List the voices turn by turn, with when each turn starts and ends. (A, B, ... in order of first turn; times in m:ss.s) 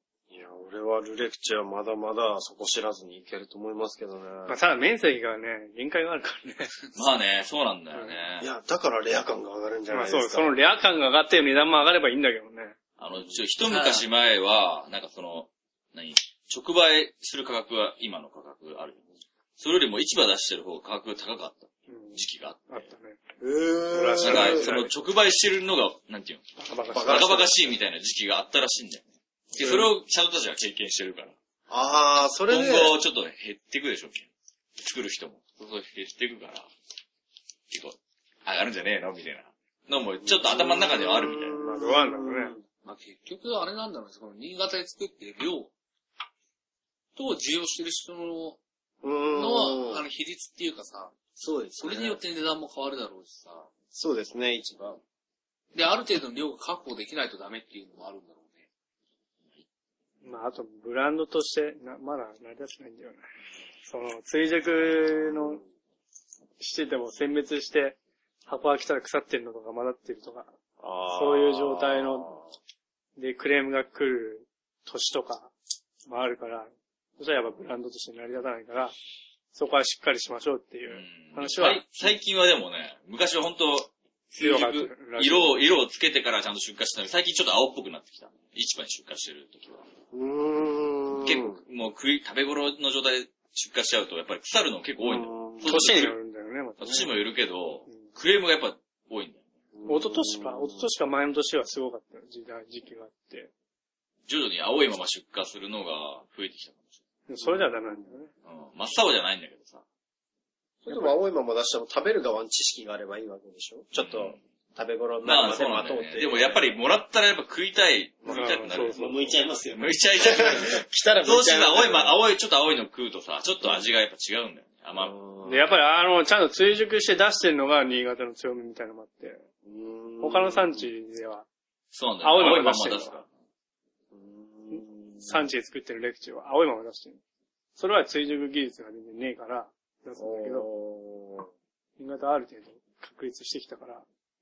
0:00.3-0:04.6 A
0:04.5-0:06.7 B
0:06.9-0:08.5 C
0:08.4-0:10.5 A
0:09.9-0:12.8 B
0:13.0-0:19.0 C
0:13.2-0:13.4 A
0:13.6-0:14.1 D
0:19.6-0:22.8 C
0:21.9-0:23.2 B
0:23.4-0:24.7 A
0:23.9-0:24.9 B
0:24.2-0:31.4 C
0:26.6-0:27.3 B
0:26.9-0:27.7 A
0:29.5-0:29.9 A
0:31.7-0:33.0 A
0:32.5-0:34.3 C
0:34.8-0:36.7 C
0:37.7-0:41.6 C
0:40.2-0:42.6 A
0:41.6-0:42.6 B
0:42.8-0:45.7 D
0:47.2-0:48.6 D
0:49.0-0:50.0 A
0:49.3-0:51.1 D
0:51.4-0:52.2 A
0:51.8-0:53.7 D
0:53.9-0:55.0 A
0:55.7-0:58.6 D
1:00.2-1:03.2 B
1:03.9-1:05.6 B
1:06.6-1:10.5 B
1:10.8-1:12.5 A
1:11.1-1:12.3 B
1:13.2-1:15.5 B
1:16.0-1:18.9 B
1:19.5-1:21.9 B
1:20.9-1:29.9 C
1:24.4-1:25.6 B
1:30.1-1:31.6 A
1:31.2-1:36.1 C
1:35.0-1:36.0 A
1:35.6-1:37.2 B
1:36.8-1:39.4 C
1:39.7-1:40.9 A
1:39.8-1:43.5 B
1:44.3-1:46.9 C
1:47.3-1:48.3 B
1:47.4-1:48.1 A
1:48.4-1:49.8 C
1:50.8-1:56.8 A
1:50.9-1:51.2 B
1:54.0-1:54.4 C
1:55.2-1:59.0 C
1:58.2-2:02.2 A
1:58.3-1:59.2 B
1:59.7-2:05.1 C
2:05.0-2:05.7 A
2:05.4-2:09.4 B
2:09.6-2:10.9 A
2:10.2-2:11.4 B
2:11.9-2:13.3 C
2:12.2-2:13.2 B
2:14.1-2:15.5 A
2:14.7-2:17.2 B
2:17.8-2:20.7 B
2:20.2-2:21.5 A
2:22.0-2:24.0 B